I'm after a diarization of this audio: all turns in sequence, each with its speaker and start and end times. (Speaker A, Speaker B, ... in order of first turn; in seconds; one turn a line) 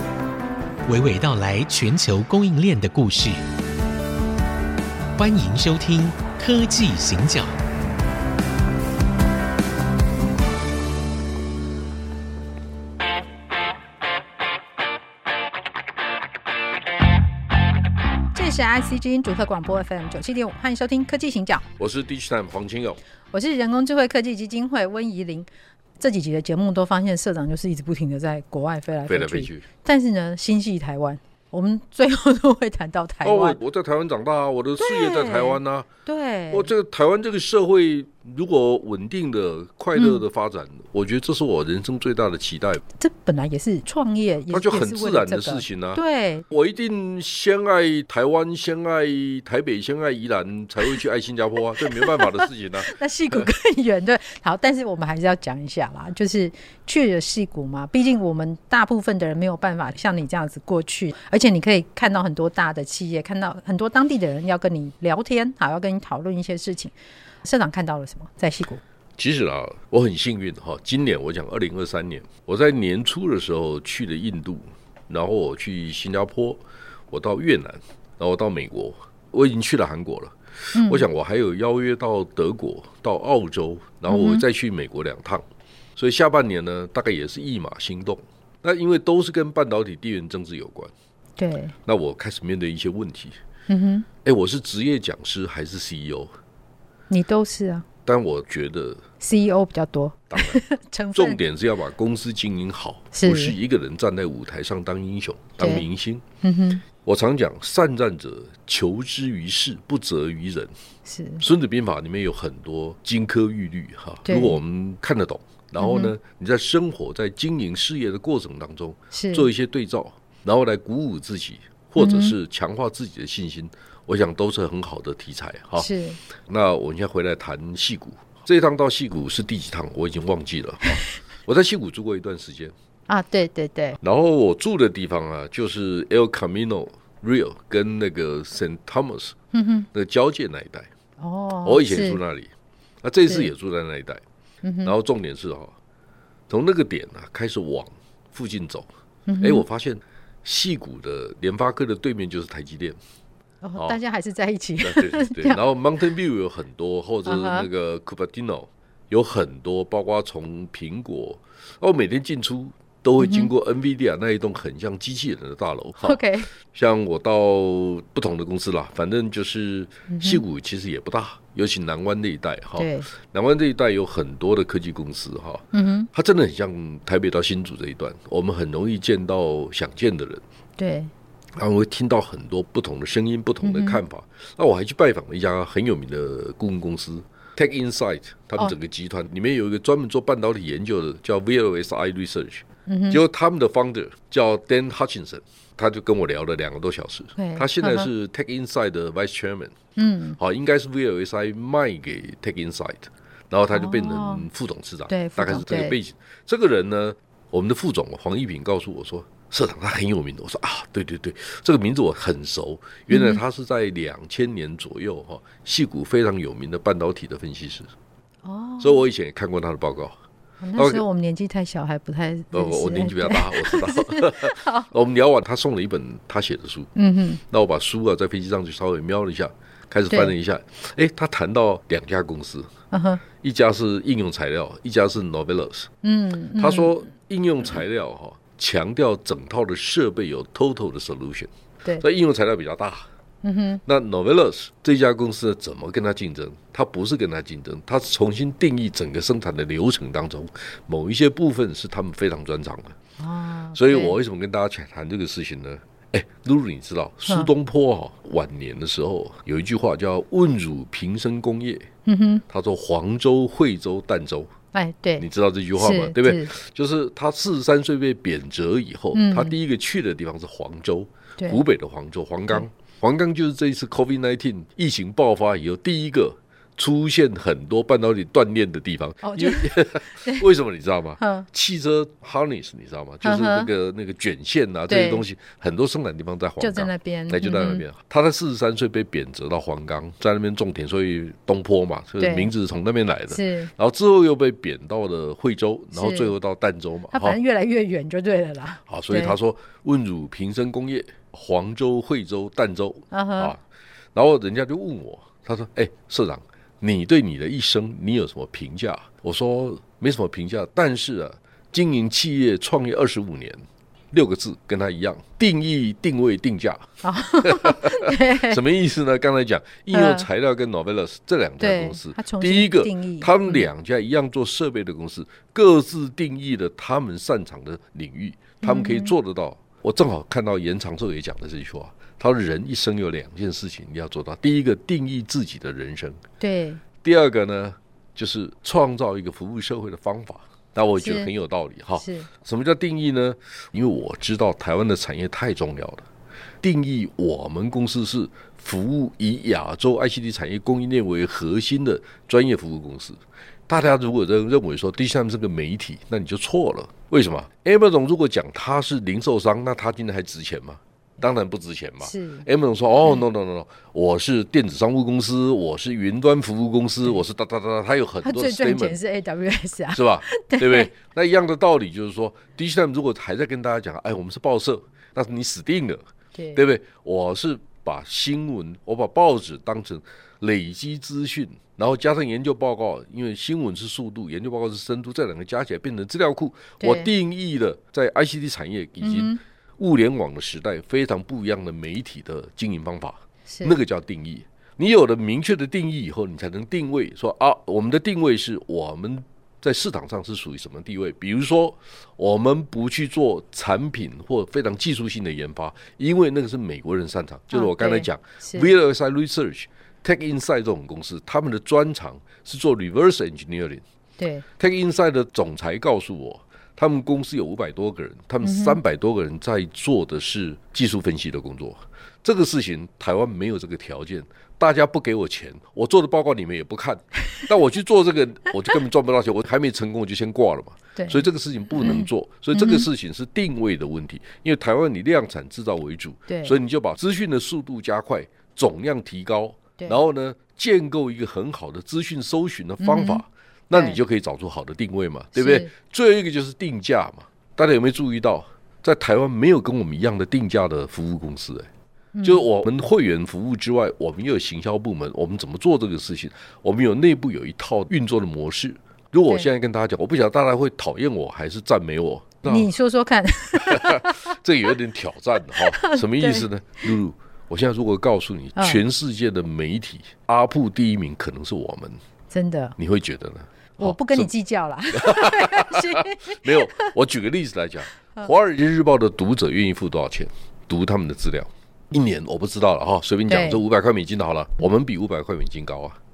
Speaker A: 0.9-3.4
Speaker A: 5.2-7.6
Speaker B: 18.3-21.7
Speaker C: 21.8-23.0
Speaker B: 23.3-33.6
Speaker C: 29.1-29.7
Speaker C: 33.2-35.9
Speaker B: 34.8-36.7
Speaker C: 36.5-42.8
Speaker B: 40.0-40.2
Speaker B: 43.0-46.5
Speaker C: 44.5-53.5
Speaker B: 51.8-68.8
Speaker C: 69.2-85.5
Speaker B: 80.8-81.1
Speaker B: 84.1-84.5
Speaker C: 86.0-90.9
Speaker B: 91.4-91.8
Speaker C: 91.8-93.4
Speaker B: 93.7-94.1
Speaker C: 94.2-96.3
Speaker B: 97.1-97.8
Speaker C: 98.1-99.0
Speaker B: 99.2-101.4
Speaker C: 100.3-100.6
Speaker C: 101.1-106.2
Speaker B: 103.1-103.6
Speaker B: 105.6-105.9
Speaker B: 106.4-106.8
Speaker C: 107.0-110.7
Speaker B: 111.0-111.5
Speaker C: 111.4-125.9
Speaker B: 114.3-114.6
Speaker B: 115.8-116.2
Speaker B: 119.1-119.5
Speaker B: 122.0-122.4
Speaker B: 125.8-126.2
Speaker C: 126.5-132.7
Speaker B: 133.1-134.0
Speaker C: 134.0-139.4
Speaker B: 139.5-139.9
Speaker C: 139.9-140.9
Speaker B: 141.2-142.2
Speaker C: 141.7-142.5
Speaker C: 143.0-144.2
Speaker B: 144.6-144.9
Speaker C: 144.8-145.8
Speaker C: 146.5-148.9
Speaker B: 149.3-149.7
Speaker C: 149.4-153.0
Speaker B: 153.6-155.6
Speaker C: 154.8-180.4
Speaker B: 157.2-157.7
Speaker B: 163.2-163.5
Speaker B: 166.0-166.5
Speaker B: 170.1-170.4
Speaker B: 172.8-173.1
Speaker B: 175.7-176.1
Speaker B: 180.8-181.1
Speaker C: 181.6-199.8
Speaker B: 183.6-184.0
Speaker B: 192.9-193.2
Speaker B: 197.4-198.1
Speaker B: 200.0-200.4
Speaker C: 200.4-217.9
Speaker B: 203.7-204.5
Speaker B: 205.1-206.0
Speaker B: 213.1-213.4
Speaker B: 218.4-219.1
Speaker C: 218.8-220.2
Speaker B: 220.6-224.9
Speaker C: 220.8-221.0
Speaker C: 222.5-226.9
Speaker B: 226.9-227.4
Speaker C: 227.5-232.7
Speaker B: 232.9-233.2
Speaker C: 233.4-235.9
Speaker B: 236.0-236.9
Speaker C: 236.6-243.1
Speaker B: 243.4-243.8
Speaker C: 243.8-253.0
Speaker B: 253.2-254.2
Speaker C: 253.7-261.9
Speaker B: 262.1-262.4
Speaker C: 262.5-264.5
Speaker B: 264.7-266.5
Speaker C: 265.2-297.4
Speaker B: 269.1-269.6
Speaker B: 271.4-271.6
Speaker B: 279.2-280.5
Speaker B: 281.2-281.5
Speaker B: 283.2-283.7
Speaker B: 284.9-285.3
Speaker B: 286.6-287.8
Speaker B: 292.2-292.5
Speaker B: 293.3-293.7
Speaker B: 295.9-296.3
Speaker B: 297.1-299.4
Speaker C: 298.9-303.6
Speaker B: 303.1-303.6
Speaker C: 304.1-316.9
Speaker B: 317.0-318.6
Speaker C: 317.4-336.2
Speaker B: 319.9-320.3
Speaker B: 321.6-323.6
Speaker B: 328.6-329.1
Speaker B: 336.4-336.8
Speaker C: 337.0-346.1
Speaker B: 341.0-341.3
Speaker B: 342.0-342.3
Speaker C: 346.6-369.0
Speaker B: 362.0-362.4
Speaker B: 368.2-370.9
Speaker C: 369.9-376.0
Speaker B: 376.3-376.6
Speaker C: 376.6-413.8
Speaker B: 386.8-387.1
Speaker B: 389.0-389.4
Speaker B: 393.5-393.8
Speaker B: 407.5-408.7
Speaker B: 414.2-414.4
Speaker C: 414.6-451.7
Speaker B: 418.4-418.8
Speaker B: 431.0-431.2
Speaker B: 431.8-432.9
Speaker B: 436.3-436.6
Speaker B: 442.8-444.0
Speaker B: 445.4-445.7
Speaker B: 452.1-452.4
Speaker C: 452.2-462.7
Speaker B: 462.5-464.3
Speaker C: 463.6-472.0
Speaker B: 465.6-466.5
Speaker B: 468.6-468.8
Speaker B: 472.3-472.8
Speaker C: 472.8-474.3
Speaker B: 473.8-476.9
Speaker C: 474.9-486.0
Speaker B: 483.3-483.6